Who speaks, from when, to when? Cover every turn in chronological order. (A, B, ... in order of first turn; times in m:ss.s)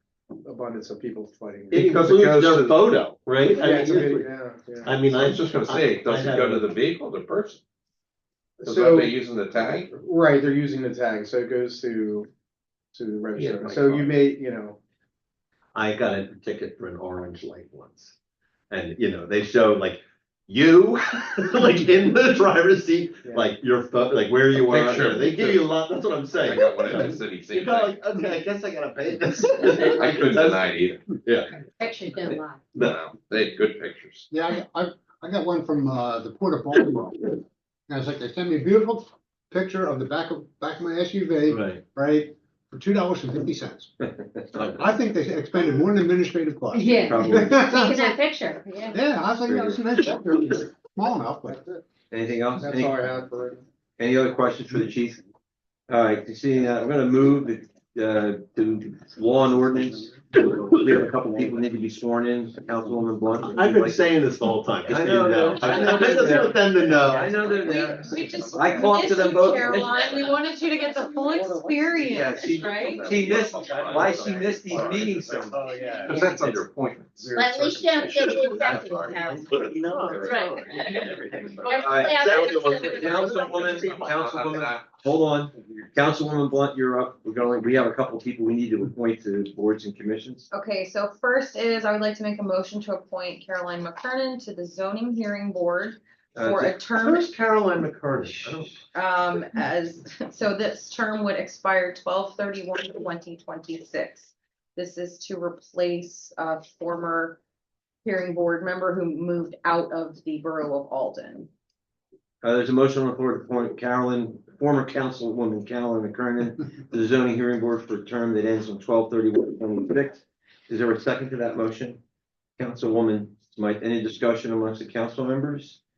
0:00.4-0:01.9 A
0:01.7-0:03.0 B
0:01.7-0:04.3 C
0:03.5-0:05.0 A
0:04.8-0:06.7 C
0:05.0-0:07.6 B
0:08.6-0:12.3 A
0:08.6-0:09.9 B
0:12.9-0:14.8 A
0:13.3-0:14.2 B
0:15.7-0:18.2 C
0:18.7-0:31.5 C
0:23.2-0:23.5 A
0:24.5-0:25.7 B
0:26.3-0:28.0 B
0:29.7-0:31.0 B
0:31.8-0:32.6 D
0:32.7-0:34.3 B
0:34.3-0:37.4 E
0:37.9-0:43.9 E
0:41.5-0:41.8 F
0:44.4-0:44.8 F
0:44.6-0:48.2 E
0:46.7-0:49.0 D
0:47.0-0:47.5 F
0:48.9-0:51.6 E
0:49.5-0:49.8 F
0:51.5-0:51.8 A
0:52.1-0:53.1 F
0:52.6-0:53.6 A
0:54.0-0:55.2 F
0:55.9-1:04.1 F
1:03.4-1:07.6 C
1:04.8-1:10.1 F
1:07.6-1:13.0 G
1:12.0-1:15.6 F
1:12.6-1:15.4 B
1:13.2-1:16.2 C
1:16.0-1:17.4 B
1:17.3-1:18.0 C
1:17.3-1:20.8 D
1:18.4-1:19.2 B
1:19.3-1:23.0 C
1:19.9-1:21.0 G
1:21.6-1:23.2 G
1:21.6-1:25.1 B
1:21.6-1:23.8 D
1:21.7-1:22.2 F
1:22.9-1:30.5 F
1:30.5-1:37.3 G
1:36.4-1:36.9 F
1:37.0-1:38.6 C
1:38.3-1:38.7 F
1:38.9-1:47.4 G
1:48.0-1:51.5 G
1:52.4-2:02.0 F
2:02.6-2:05.8 F